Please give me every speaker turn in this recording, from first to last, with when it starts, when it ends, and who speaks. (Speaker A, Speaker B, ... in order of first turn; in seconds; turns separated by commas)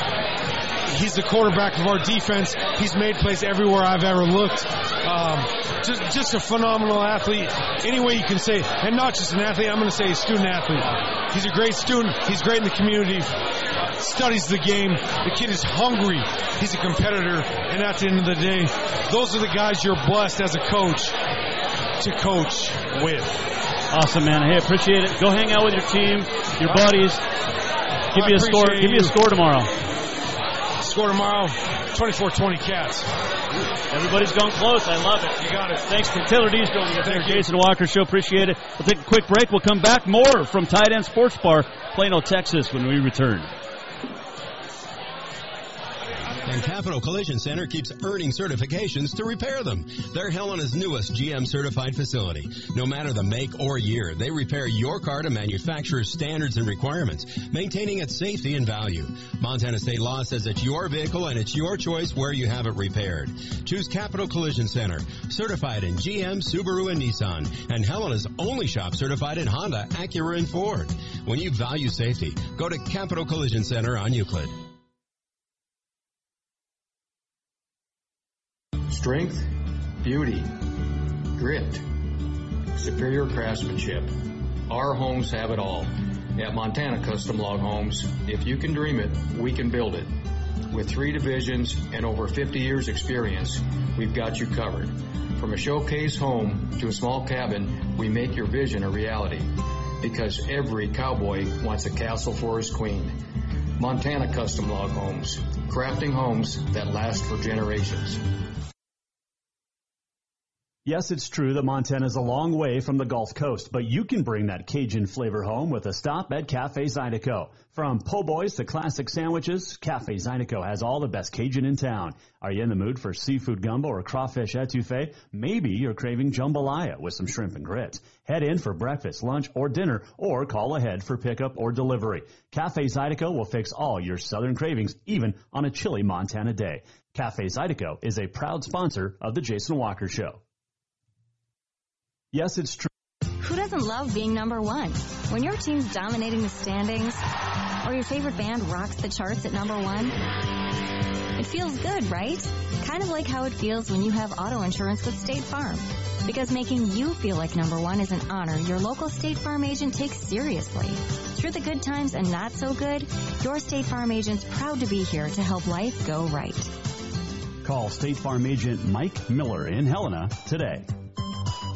Speaker A: 0.9-13.3, Speaker A: 14.0-21.2, Speaker A: 22.0-23.4, Speaker B: 23.9-27.2, Speaker A: 28.1-29.1, Speaker B: 28.1-29.7, Speaker A: 30.8-33.1, Speaker B: 33.9-43.5, Speaker A: 35.4-36.1, Speaker A: 37.0-37.5, Speaker C: 46.4-74.5, Speaker D: 78.9-79.5, Speaker D: 80.0-80.6, Speaker D: 81.3-81.8, Speaker D: 82.7-84.1, Speaker D: 84.7-90.1, Speaker D: 90.7-103.2, Speaker D: 103.8-108.2, Speaker E: 110.8-140.4, Speaker E: 142.3-142.9, Speaker F: 143.4-147.2, Speaker F: 147.8-150.2, Speaker F: 151.4-166.7, Speaker E: 167.6-170.9